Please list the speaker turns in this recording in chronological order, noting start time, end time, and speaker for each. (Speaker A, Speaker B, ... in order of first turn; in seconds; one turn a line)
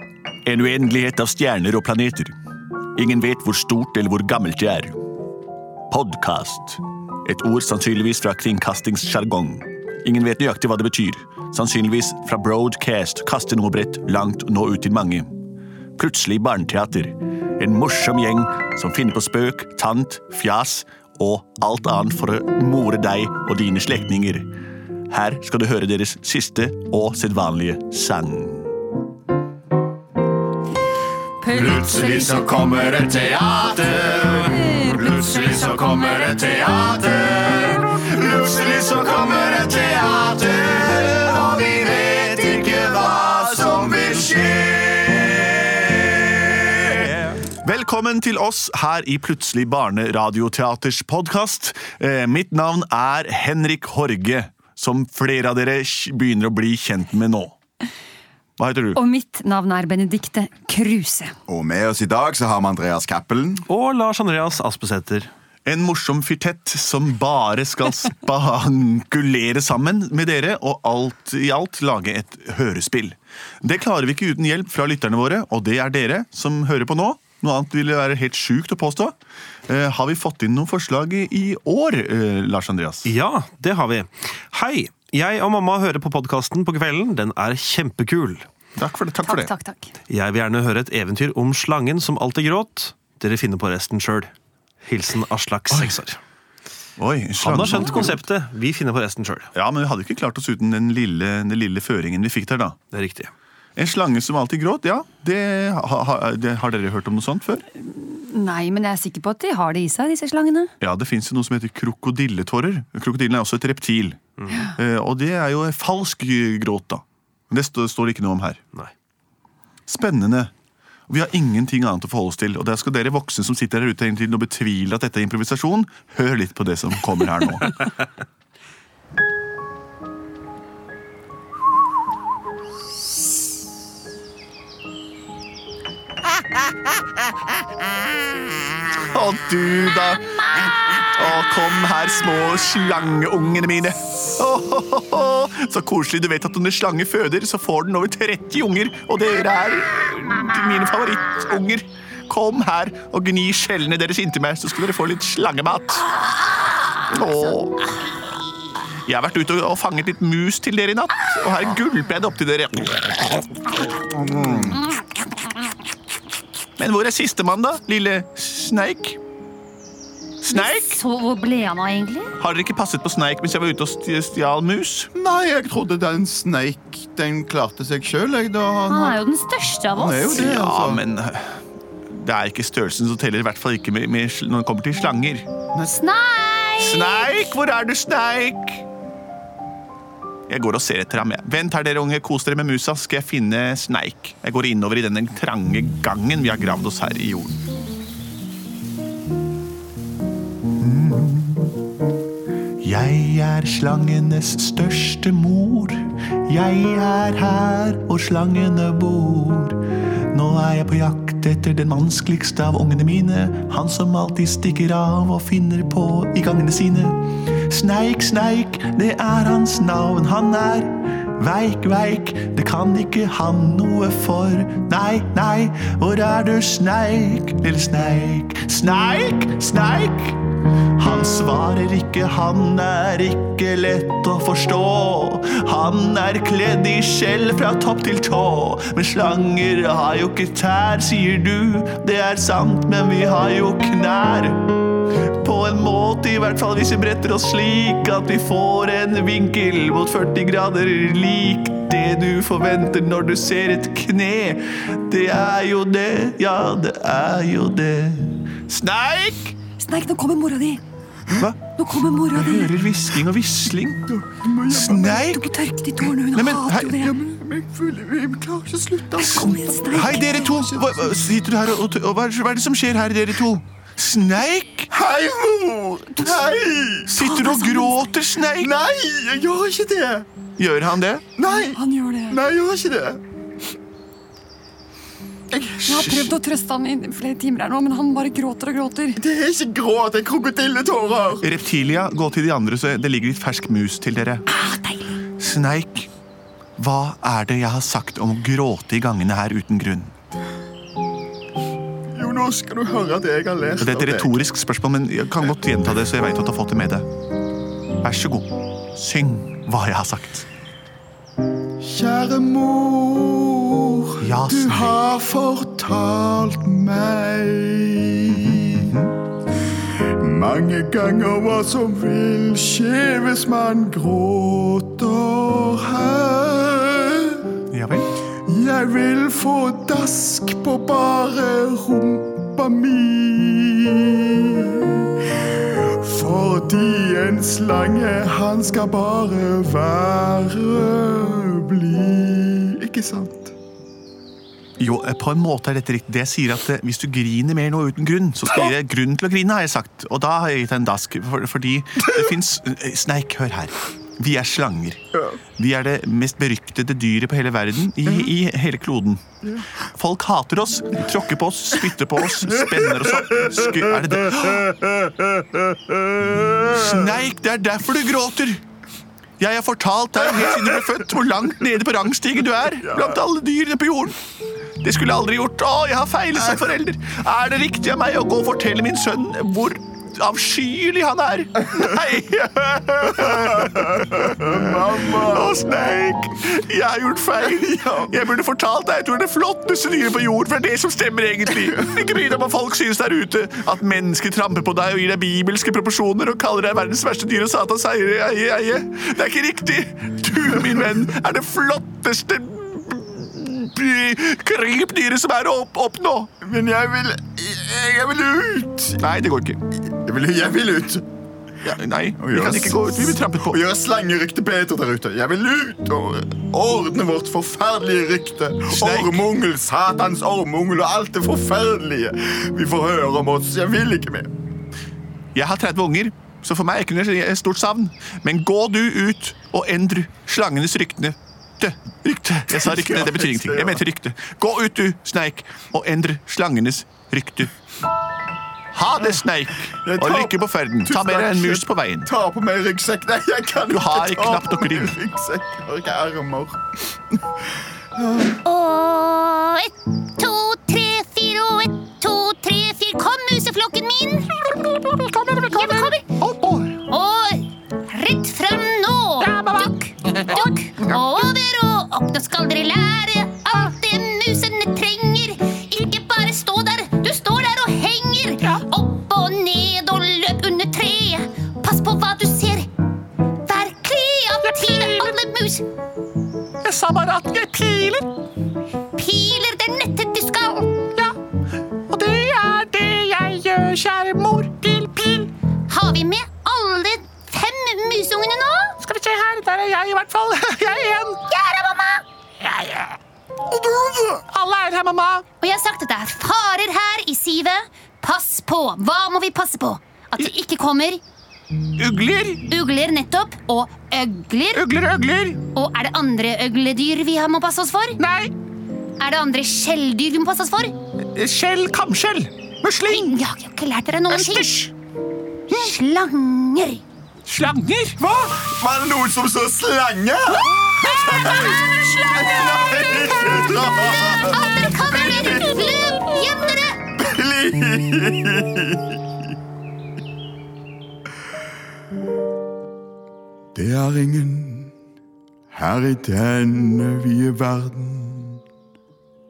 Speaker A: 0.5-2.3
Speaker A: 3.0-5.0
Speaker A: 5.9-15.4
Speaker A: 16.0-24.5
Speaker A: 25.1-28.7
Speaker B: 31.4-37.9
Speaker A: 31.6-34.0
Speaker A: 36.9-57.5
Speaker A: 58.6-59.0
Speaker C: 59.2-60.1
Speaker C: 60.6-61.3
Speaker D: 61.5-63.6
Speaker E: 63.7-65.3
Speaker A: 65.7-79.2
Speaker A: 79.7-83.1
Speaker E: 83.0-88.5
Speaker A: 88.8-89.5
Speaker C: 89.3-89.8
Speaker E: 90.1-94.3
Speaker E: 94.8-96.2
Speaker A: 97.0-98.2
Speaker E: 97.4-99.5
Speaker A: 99.5-102.8
Speaker E: 102.9-103.3
Speaker A: 103.8-107.7
Speaker C: 108.0-110.7
Speaker A: 110.8-118.6
Speaker E: 114.4-114.7
Speaker A: 119.9-120.5
Speaker A: 121.1-127.7
Speaker A: 139.1-156.2
Speaker A: 157.0-158.1
Speaker A: 159.0-163.4
Speaker D: 164.0-164.8
Speaker A: 166.8-169.2
Speaker A: 170.4-171.0
Speaker B: 170.5-172.3
Speaker A: 172.4-175.1
Speaker D: 175.1-179.2
Speaker B: 178.9-180.5
Speaker D: 179.9-181.1
Speaker A: 180.3-185.5
Speaker B: 185.8-187.4
Speaker A: 186.8-188.8
Speaker A: 190.5-197.6
Speaker A: 200.8-201.8
Speaker A: 202.8-230.4
Speaker A: 231.0-244.7
Speaker A: 245.4-259.6
Speaker C: 259.7-260.8
Speaker A: 261.4-261.6
Speaker C: 261.6-262.7
Speaker A: 262.3-264.0
Speaker D: 264.1-265.3
Speaker A: 264.7-265.4
Speaker C: 265.2-267.1
Speaker A: 266.3-266.8
Speaker D: 266.8-271.2
Speaker C: 269.2-270.2
Speaker A: 270.0-274.9
Speaker D: 274.9-277.3
Speaker A: 277.1-278.7
Speaker C: 277.2-278.0
Speaker D: 278.6-280.3
Speaker A: 280.6-281.3
Speaker D: 281.4-283.2
Speaker C: 281.4-282.4
Speaker D: 285.5-286.3
Speaker C: 285.9-289.2
Speaker D: 289.2-291.5
Speaker A: 291.4-294.4
Speaker C: 294.7-295.1
Speaker A: 295.4-296.1
Speaker A: 296.8-300.1
Speaker D: 302.1-304.4
Speaker A: 303.8-307.1
Speaker A: 308.0-310.5
Speaker D: 311.8-319.0
Speaker A: 314.2-315.0
Speaker A: 318.3-319.1
Speaker D: 320.0-327.4
Speaker A: 327.7-328.1
Speaker D: 328.5-343.5
Speaker A: 344.8-355.0
Speaker A: 355.6-359.2
Speaker D: 359.4-359.7
Speaker A: 359.9-364.8
Speaker D: 362.8-363.2
Speaker D: 364.9-367.2
Speaker A: 366.7-368.6
Speaker A: 369.4-374.2
Speaker D: 372.9-373.2
Speaker A: 374.8-406.3
Speaker D: 383.6-385.6
Speaker D: 406.4-409.0
Speaker A: 409.0-409.6
Speaker D: 409.9-411.1
Speaker A: 411.6-413.6
Speaker D: 412.2-424.3
Speaker A: 418.7-419.2
Speaker A: 425.4-437.5
Speaker D: 432.5-433.8
Speaker A: 438.7-442.1
Speaker D: 439.9-446.6
Speaker A: 443.7-444.9
Speaker D: 448.0-448.4
Speaker B: 448.4-454.3
Speaker A: 454.8-455.4
Speaker B: 455.5-456.1
Speaker A: 456.2-456.7
Speaker B: 456.9-472.7
Speaker B: 473.5-475.7
Speaker A: 476.6-478.1
Speaker B: 478.9-480.8
Speaker A: 481.9-485.3
Speaker B: 485.7-488.8
Speaker A: 488.9-491.2
Speaker B: 491.3-492.0
Speaker A: 492.6-492.9
Speaker A: 493.6-495.2
Speaker B: 495.4-501.0
Speaker A: 501.8-502.4
Speaker B: 502.4-504.6
Speaker A: 504.5-505.4
Speaker B: 505.6-508.0
Speaker A: 508.0-508.3
Speaker B: 509.0-510.8
Speaker A: 511.1-513.2
Speaker B: 512.9-514.7
Speaker A: 514.1-514.7
Speaker B: 515.5-516.8
Speaker A: 517.3-518.0
Speaker D: 518.0-525.8
Speaker B: 520.8-526.8
Speaker D: 527.0-529.0
Speaker D: 533.5-534.7
Speaker D: 535.5-538.4